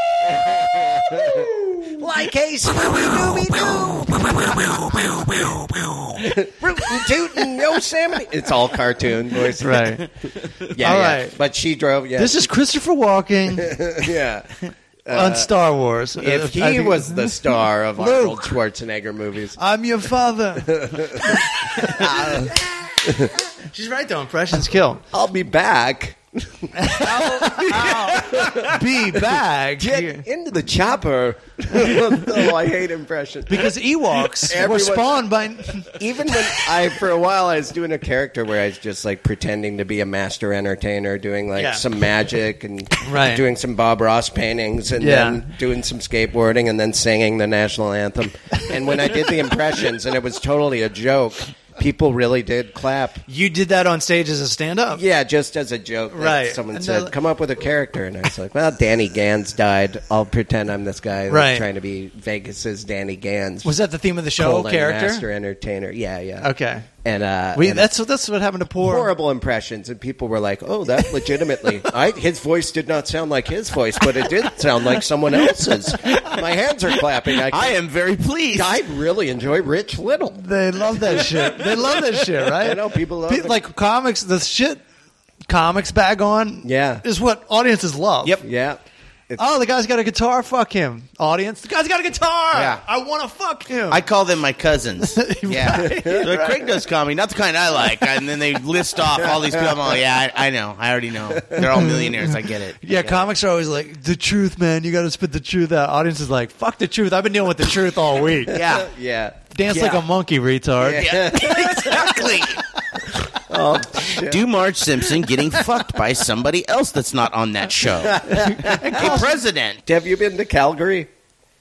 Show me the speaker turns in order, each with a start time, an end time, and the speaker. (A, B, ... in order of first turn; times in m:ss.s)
0:00.2-0:05.2 A
0:04.4-0:05.8 B
0:06.2-0:12.5 A
0:09.6-0:10.1 C
0:10.8-0:11.4 C
0:12.2-0:13.8 C
0:13.5-0:15.5 A
0:15.1-0:17.3 C
0:16.2-0:19.6 A
0:18.0-0:18.5 C
0:19.6-0:25.0 C
0:20.6-0:22.5 A
0:22.0-0:22.5 B
0:23.0-0:23.3 A
0:25.1-0:33.7 A
0:26.8-0:30.2 C
0:33.5-0:36.6 C
0:34.2-0:35.3 A
0:35.8-0:53.2 A
0:41.6-0:41.8 C
0:43.0-0:43.4 C
0:45.0-0:45.4 C
0:53.3-0:55.0 C
0:54.9-1:03.8 A
0:56.1-0:57.1 C
1:01.3-1:01.7 C
1:03.6-1:05.3 C
1:04.4-1:06.5 A
1:06.4-1:06.9 C
1:07.0-1:07.9 A
1:07.5-1:09.1 C
1:08.8-1:17.8 A
1:17.5-1:18.7 B
1:18.5-1:20.4 A
1:20.4-1:24.8 C
1:21.0-1:21.3 A
1:22.5-1:23.6 A
1:25.5-1:28.4 C
1:26.6-1:27.0 A
1:28.4-1:29.4 A
1:29.4-1:34.0 C
1:32.5-1:32.8 B
1:33.9-1:42.8 B
1:35.1-1:36.6 C
1:35.7-1:36.6 A
1:39.1-1:40.0 A
1:41.6-1:48.6 C
1:43.0-1:43.3 A
1:48.5-1:50.0 A
1:48.5-1:48.9 B
1:49.5-1:51.2 C
1:50.8-1:52.4 A
1:50.9-1:52.6 B
1:53.4-1:54.4 A
1:54.1-1:59.8 B
1:58.0-1:59.2 A
1:58.3-1:59.3 C
1:59.8-2:01.1 A